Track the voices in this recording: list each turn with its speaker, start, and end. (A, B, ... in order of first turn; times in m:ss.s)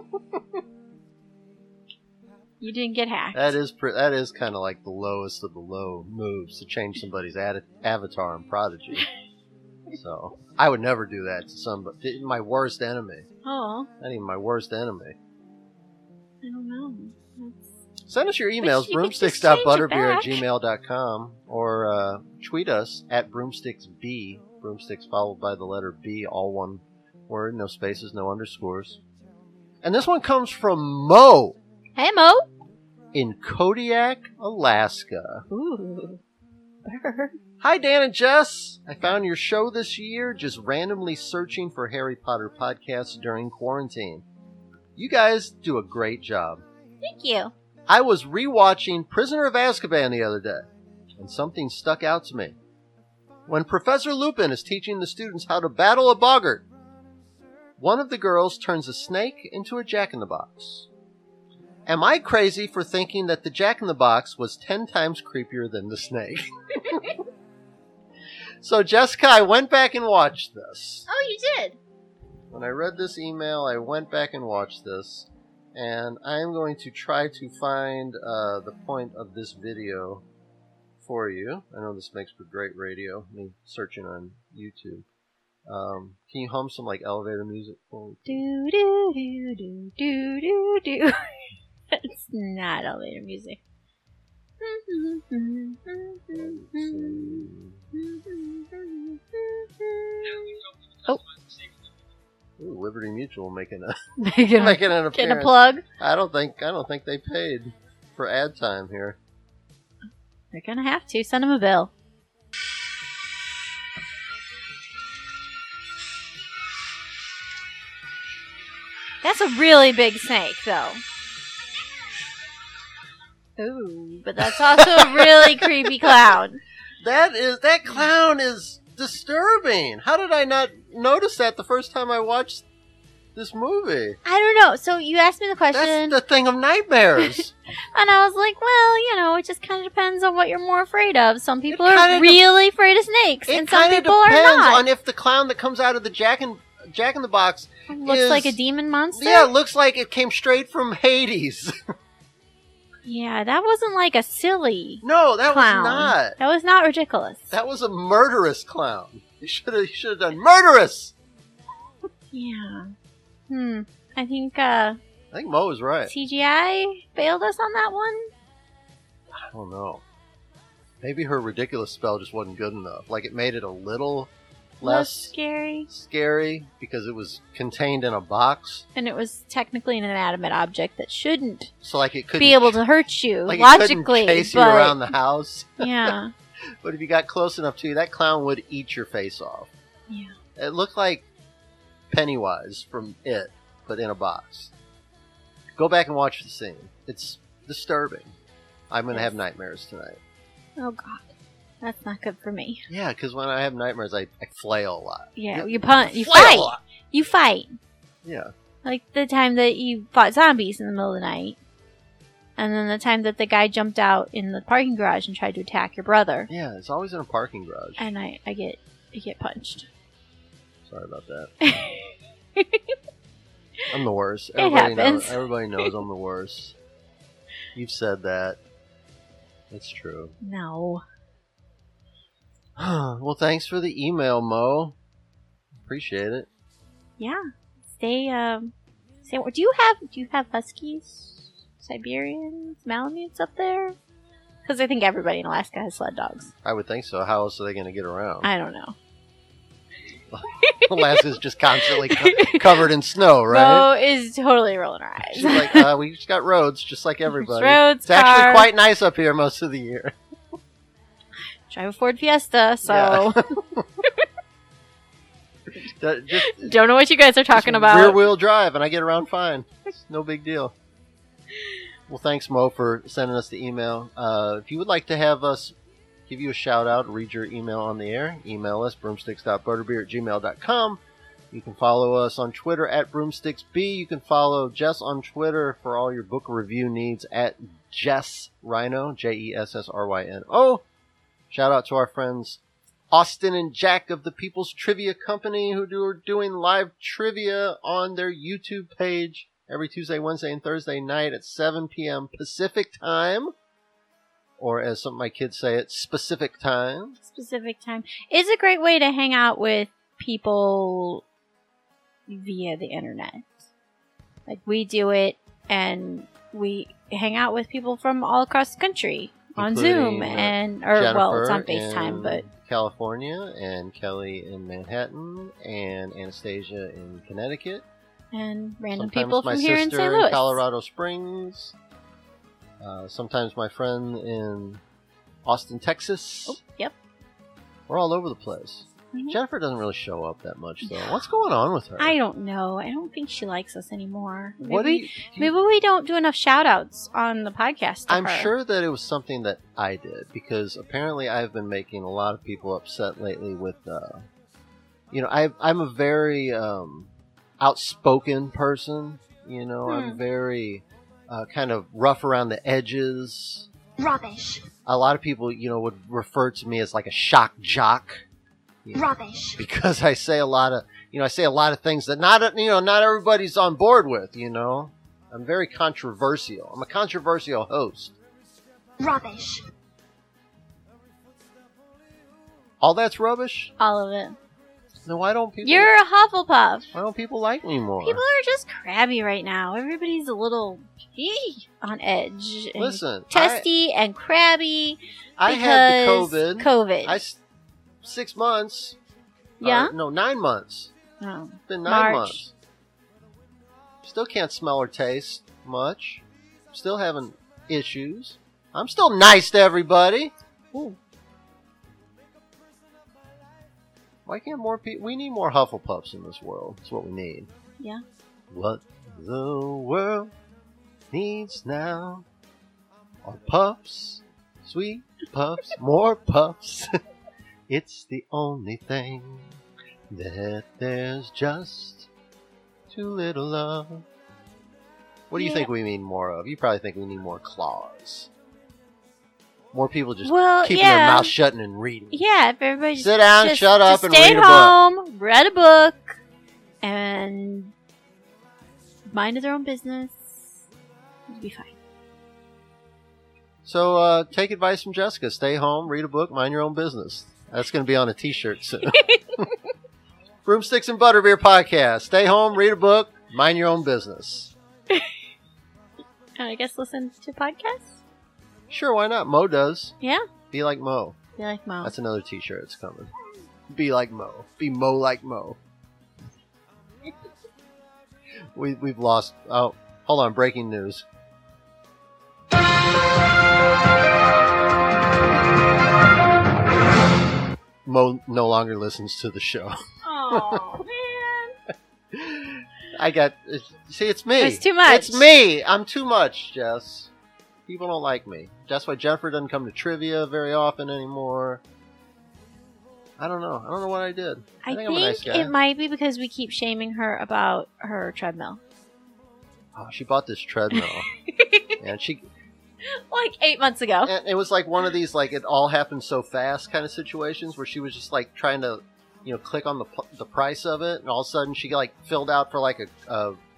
0:02.6-0:03.6 A
0:03.3-0:09.1 B
0:09.9-0:13.3 B
0:13.4-0:13.9 A
0:14.0-0:15.2 B
0:16.4-0:17.6 A
0:18.1-0:29.0 B
0:18.6-0:20.4 A
0:29.8-0:31.6 B
0:32.0-0:32.5 A
0:33.1-0:35.5 B
0:35.5-0:36.2 A
0:36.8-0:37.4 A
0:37.6-0:44.2 B
0:45.0-0:46.6 B
0:47.0-0:47.5 A
0:47.9-0:52.6 B
0:53.5-0:56.6 B
0:57.8-1:00.9 B
1:01.9-1:07.2 B
1:08.6-1:11.1 B
1:11.1-1:11.8 A
1:12.5-1:20.2 B
1:21.0-1:25.0 B
1:25.6-1:28.4 B
1:28.3-1:31.3 A
1:31.9-1:33.6 A
1:34.6-1:40.5 A
1:36.3-1:37.9 B
1:42.6-1:49.2 B
1:44.2-1:45.8 A
1:50.5-1:51.9 A
1:59.2-2:01.0 A
2:03.6-2:06.6 A
2:04.5-2:06.2 B
2:07.0-2:12.6 B
2:13.4-2:14.2 B
2:14.2-2:16.2 A
2:15.7-2:17.5 B
2:17.9-2:24.8 A
2:21.7-2:22.4 B
2:23.5-2:28.6 B
2:27.9-2:29.5 A
2:29.1-2:31.8 B
2:33.0-2:37.6 A
2:35.0-2:36.4 B
2:37.5-2:41.1 B
2:42.3-2:42.9 A
2:43.5-2:45.0 A
2:45.3-2:46.1 B
2:46.1-2:48.3 A
2:49.3-2:50.0 B
2:51.0-2:55.3 B
2:54.8-2:55.9 A
2:55.9-2:58.9 B
2:59.0-3:01.7 A
3:01.8-3:02.8 B
3:02.4-3:05.1 A
3:03.5-3:06.2 B
3:05.8-3:06.3 A
3:06.8-3:09.7 B
3:10.6-3:11.3 B
3:12.1-3:14.7 B
3:15.8-3:18.4 B
3:18.9-3:20.2 B
3:20.8-3:21.3 A
3:21.8-3:22.9 A
3:22.9-3:26.8 B
3:25.4-3:27.8 A
3:28.2-3:28.5 B
3:28.8-3:31.6 A
3:32.6-3:36.5 A
3:36.5-3:38.1 B
3:38.0-3:39.9 A
3:40.9-3:41.5 B
3:41.6-3:43.0 A
3:43.9-3:46.8 B
3:44.6-3:45.9 A
3:47.7-3:48.6 B
3:49.7-3:50.4 B
3:50.4-3:51.0 A
3:52.8-3:55.0 B
3:55.8-3:56.5 B
3:58.0-3:58.7 A
3:59.2-4:04.0 A
4:04.6-4:06.5 A
4:06.6-4:08.5 B
4:08.4-4:09.0 A
4:10.3-4:13.9 B
4:10.6-4:11.2 A
4:11.8-4:12.8 A
4:13.5-4:15.9 A
4:15.3-4:20.2 B
4:17.3-4:18.7 A
4:21.7-4:24.2 A
4:22.9-4:23.8 B
4:25.9-4:26.8 B
4:26.4-4:28.2 A
4:27.5-4:30.7 B
4:32.1-4:35.7 B
4:36.3-4:41.0 B
4:41.5-4:50.8 B
4:51.5-4:52.6 B
4:53.1-5:03.5 B
5:04.6-5:07.2 B
5:07.2-5:11.2 A
5:12.3-5:13.7 A
5:14.5-5:22.4 A
5:19.6-5:27.8 B
5:28.3-5:30.6 A
5:28.9-5:31.7 B
5:32.8-5:34.8 B
5:35.4-5:36.6 B
5:36.5-5:36.9 A
5:37.9-5:42.2 B
5:39.1-5:39.4 A
5:40.8-5:41.2 A
5:42.0-5:48.5 A
5:44.6-5:45.5 B
5:48.1-5:54.3 B
5:55.1-6:03.7 B
5:59.9-6:00.2 A
6:04.0-6:04.6 C
6:04.9-6:08.2 B
6:09.0-6:09.6 C
6:09.6-6:18.2 B
6:19.0-6:19.6 C
6:22.8-6:23.7 B
6:23.8-6:24.4 A
6:25.0-6:25.9 B
6:25.6-6:26.9 A
6:26.9-6:28.2 B
6:28.0-6:37.2 A
6:32.8-6:33.7 B
6:35.4-6:37.4 B
6:38.0-6:39.0 B
6:39.6-6:39.9 A
6:39.6-6:40.9 B
6:41.2-6:42.4 A
6:41.7-6:42.5 B
6:44.0-6:50.3 B
6:54.3-6:57.5 B
6:58.5-7:00.3 B
7:01.1-7:02.3 B
7:03.2-7:07.0 B
7:07.7-7:09.6 B
7:10.1-7:12.1 B
7:12.9-7:14.0 B
7:15.3-7:18.3 B
7:15.4-7:15.7 A
7:19.7-7:22.2 B
7:20.2-7:21.3 A
7:22.1-7:26.2 A
7:23.0-7:24.7 B
7:26.8-7:27.7 A
7:29.1-7:30.6 A
7:31.3-7:31.7 A
7:33.6-7:39.4 B
7:40.4-7:44.5 B
7:46.4-7:48.0 A
7:48.7-7:49.9 B
7:50.5-7:51.2 B
7:51.4-7:51.9 A
7:51.8-7:53.1 B
7:53.7-7:55.6 B
7:58.5-8:01.0 B
8:07.8-8:09.7 B
8:10.0-8:11.6 A
8:10.3-8:10.8 B
8:12.1-8:17.1 B
8:14.4-8:15.3 A
8:17.7-8:21.6 B
8:23.2-8:25.6 B
8:24.6-8:28.6 A
8:29.7-8:31.1 B
8:30.7-8:31.8 A
8:31.8-8:32.2 B
8:33.0-8:34.1 A
8:34.0-8:43.4 B